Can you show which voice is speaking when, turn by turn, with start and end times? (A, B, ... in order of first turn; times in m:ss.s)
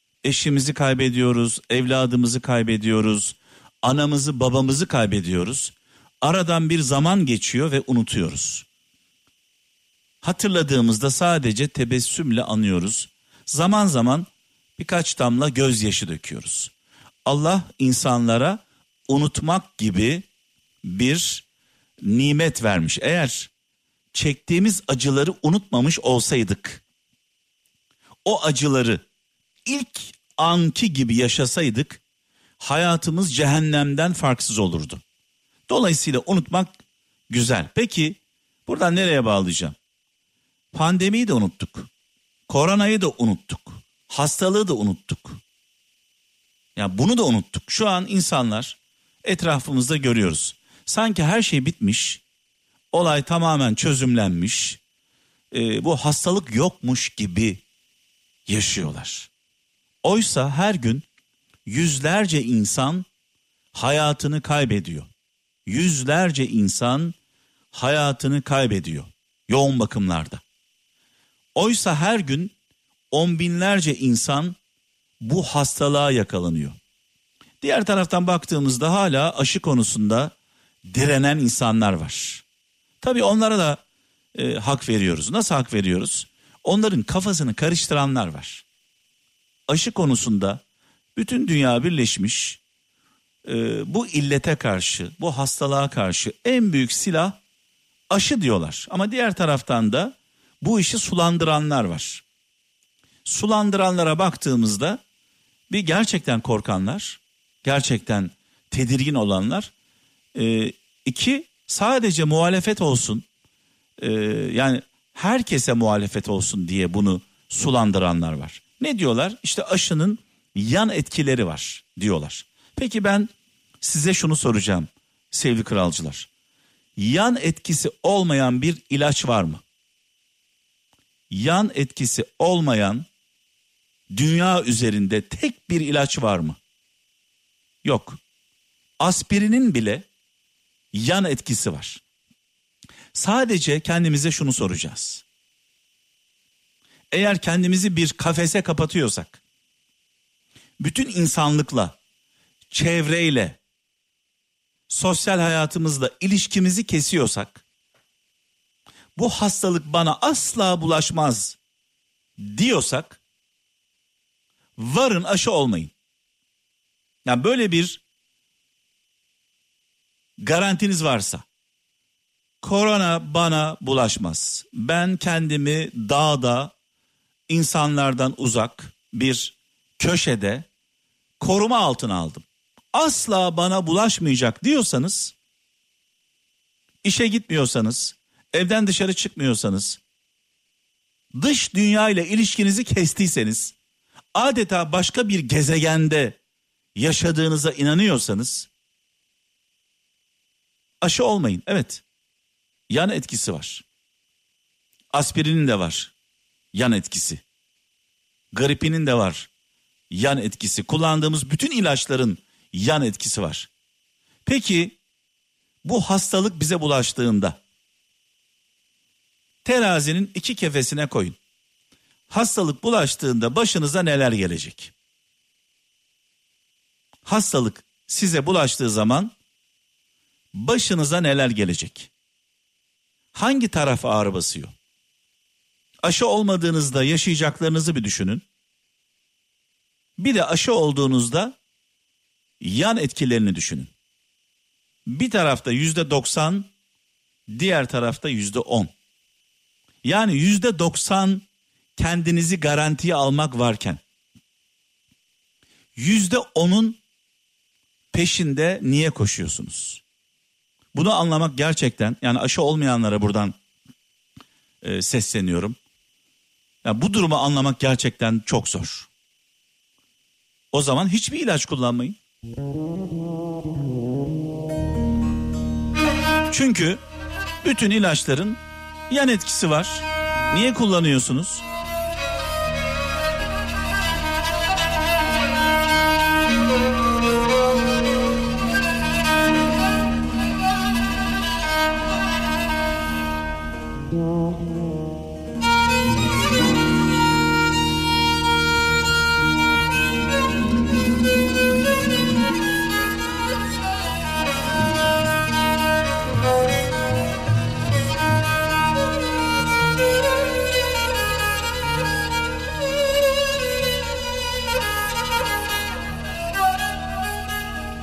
0:00.2-0:08.6 A
0:10.2-0:16.7 A
0:17.2-0:20.2 A
0:20.8-0:21.4 A
0:22.0-0:23.5 A
0:24.1-0:26.8 A
0:28.2-0:29.0 A
0:29.6-0:32.0 A
0:32.6-0:35.0 A
0:35.7-0:36.7 A
0:37.3-0:39.8 A
0:40.7-0:41.9 A
0:42.5-0:45.4 A
0:46.8-0:52.2 A
0:52.9-0:54.8 A
0:55.5-0:57.6 A
0:58.5-0:59.3 A
1:00.0-1:01.0 A
1:01.6-1:03.0 A
1:03.7-1:05.1 A
1:05.6-1:07.2 A
1:07.7-1:10.4 A
1:11.5-1:12.5 A
1:13.1-1:14.6 A
1:15.2-1:16.8 A
1:17.6-1:20.3 A
1:20.9-1:22.4 A
1:23.0-1:23.8 A
1:24.3-1:28.6 A
1:29.7-1:30.6 A
1:31.2-1:32.6 A
1:33.4-1:37.4 A
1:38.1-1:42.2 A
1:43.2-1:45.0 A
1:45.7-1:49.7 A
1:50.3-1:53.2 A
1:54.0-2:03.3 A
2:03.8-2:06.3 A
2:07.0-2:09.6 A
2:11.3-2:13.0 A
2:14.1-2:16.6 A
2:17.8-2:18.2 A
2:19.0-2:20.1 A
2:20.9-2:22.0 A
2:23.1-2:25.2 A
2:27.1-2:29.4 A
2:30.8-2:32.0 A
2:32.7-2:33.6 A
2:34.9-2:37.6 A
2:39.2-2:41.6 A
2:42.4-2:43.2 A
2:44.8-2:45.9 A
2:47.2-2:48.0 A
2:50.4-2:51.4 A
2:52.6-2:56.7 A
2:57.5-3:00.7 A
3:01.4-3:05.3 A
3:07.0-3:10.0 A
3:11.3-3:13.7 A
3:14.3-3:16.4 A
3:17.0-3:18.7 A
3:21.0-3:22.0 A
3:22.9-3:23.8 A
3:25.1-3:26.1 A
3:26.7-3:27.4 A
3:28.5-3:29.5 A
3:30.1-3:33.7 A
3:34.4-3:35.0 A
3:35.8-3:37.6 A
3:39.6-3:41.4 A
3:42.3-3:44.9 A
3:47.2-3:49.3 A
3:50.5-3:52.1 A
3:53.3-3:54.7 A
3:56.0-3:58.4 A
4:00.2-4:01.6 A
4:02.6-4:03.9 A
4:05.1-4:06.7 A
4:07.5-4:08.9 A
4:10.0-4:11.4 A
4:12.0-4:14.0 A
4:15.9-4:17.0 A
4:18.1-4:20.0 A
4:20.9-4:23.6 A
4:24.8-4:25.8 A
4:26.8-4:29.1 A
4:30.7-4:32.2 A
4:36.5-4:37.0 A
4:37.6-4:41.6 A